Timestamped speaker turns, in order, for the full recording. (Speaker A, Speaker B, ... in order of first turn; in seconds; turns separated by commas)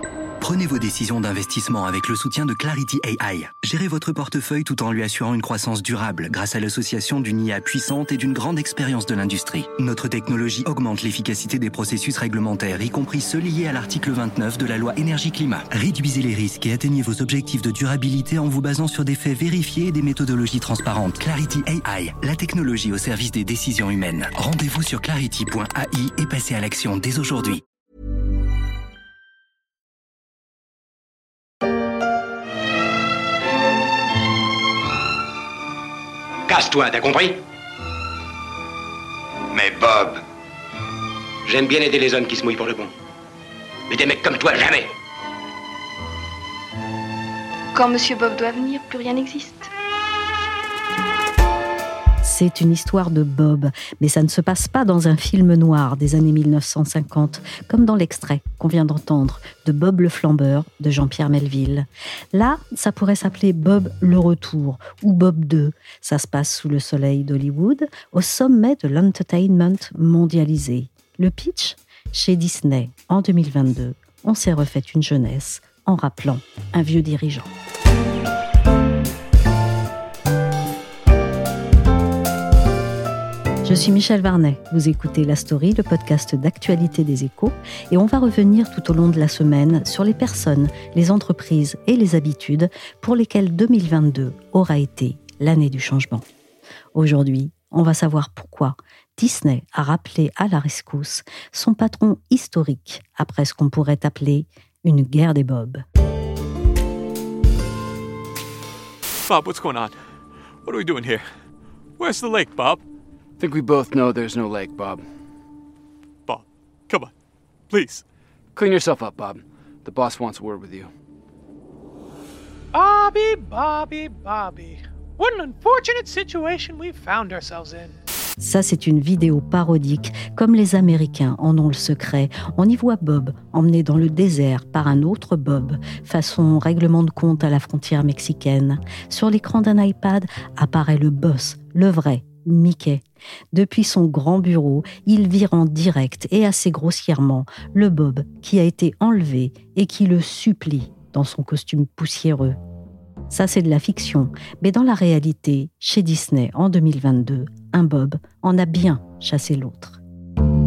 Speaker A: 0.4-27.6, Speaker B: 36.5-37.4, Speaker B: 39.7-40.2, Speaker B: 41.5-42.9, Speaker B: 43.9-44.9, Speaker C: 47.7-49.7, Speaker D: 52.2-77.5, Speaker D: 83.6-96.2, Speaker D: 96.9-105.8, Speaker E: 109.2-110.0, Speaker E: 110.6-111.3, Speaker E: 112.0-112.8, Speaker F: 113.4-115.0, Speaker E: 116.3-117.1, Speaker E: 117.7-118.0, Speaker F: 118.5-120.9, Speaker G: 122.7-127.9, Speaker D: 128.4-152.6, Speaker D: 153.3-160.0